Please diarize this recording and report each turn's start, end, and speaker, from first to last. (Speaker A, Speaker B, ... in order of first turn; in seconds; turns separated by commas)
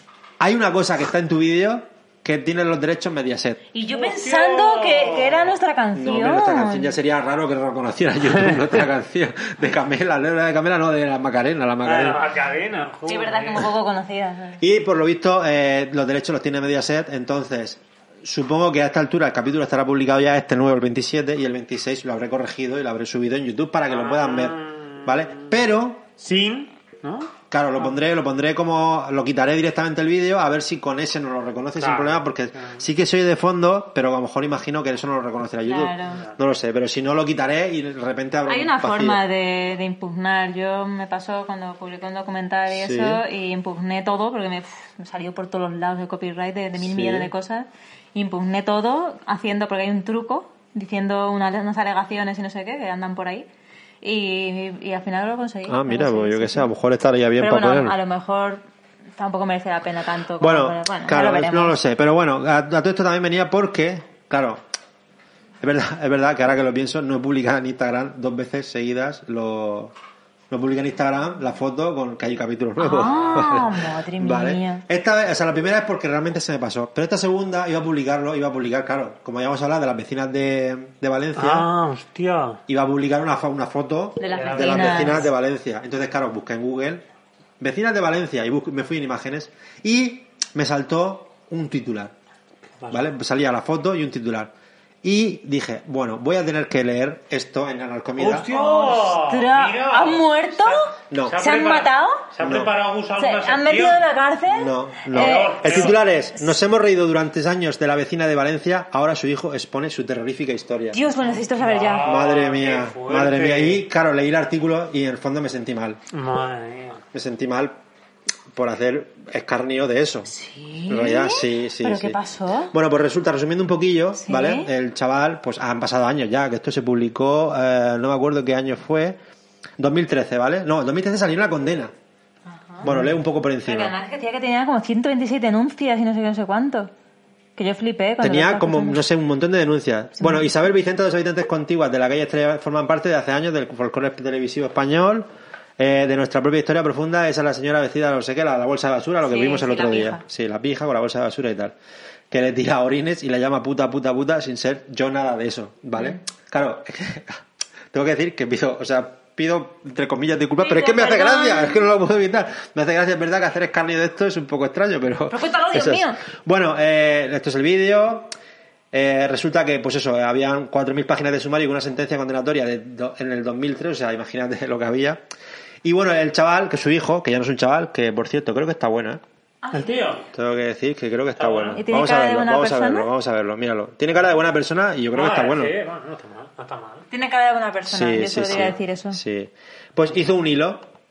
Speaker A: 0.4-3.6, Speaker B: 3.7-6.9, Speaker C: 3.9-5.6, Speaker A: 6.0-12.2, Speaker C: 11.8-13.7, Speaker B: 13.1-14.6, Speaker A: 14.6-26.0, Speaker C: 23.9-25.6, Speaker C: 26.2-27.3, Speaker A: 27.5-39.2, Speaker C: 31.8-32.8, Speaker B: 35.6-36.2, Speaker B: 38.5-53.5, Speaker A: 42.7-43.2, Speaker A: 46.8-47.3, Speaker B: 54.0-56.7, Speaker A: 55.7-58.0, Speaker B: 57.4-58.6, Speaker B: 59.2-61.8, Speaker A: 60.4-64.6, Speaker A: 65.6-69.9, Speaker A: 70.5-81.7, Speaker B: 72.8-74.8, Speaker C: 73.1-73.5, Speaker C: 81.3-82.6, Speaker A: 82.7-87.0, Speaker B: 84.2-85.3, Speaker C: 84.3-85.3, Speaker A: 87.6-92.1, Speaker C: 92.8-93.1, Speaker A: 92.9-94.5, Speaker A: 95.0-98.5, Speaker C: 98.2-104.0, Speaker B: 98.5-102.2, Speaker A: 101.1-101.4, Speaker A: 102.4-102.7, Speaker B: 103.2-106.6, Speaker A: 104.5-111.0, Speaker C: 105.1-106.0, Speaker B: 110.9-112.1, Speaker C: 111.6-113.8, Speaker A: 112.0-116.0, Speaker C: 116.1-117.0, Speaker A: 117.1-117.8, Speaker A: 118.5-120.3, Speaker B: 120.3-122.7, Speaker A: 120.9-122.2, Speaker A: 122.7-129.2, Speaker B: 124.2-124.7, Speaker A: 129.8-131.9, Speaker B: 132.5-133.1, Speaker A: 132.8-133.9, Speaker B: 133.6-136.9, Speaker B: 137.6-139.0, Speaker A: 138.2-151.7, Speaker B: 140.2-140.5, Speaker B: 149.2-150.2, Speaker A: 152.3-157.4, Speaker A: 157.9-168.3, Speaker B: 160.6-161.8, Speaker B: 165.3-166.2, Speaker A: 168.9-175.2, Speaker A: 175.8-179.2, Speaker B: 179.6-180.0, Speaker C: 179.7-180.2, Speaker A: 180.3-185.8, Speaker C: 181.3-181.8, Speaker B: 181.7-183.1, Speaker C: 185.1-187.1, Speaker B: 187.1-189.2, Speaker A: 187.9-190.8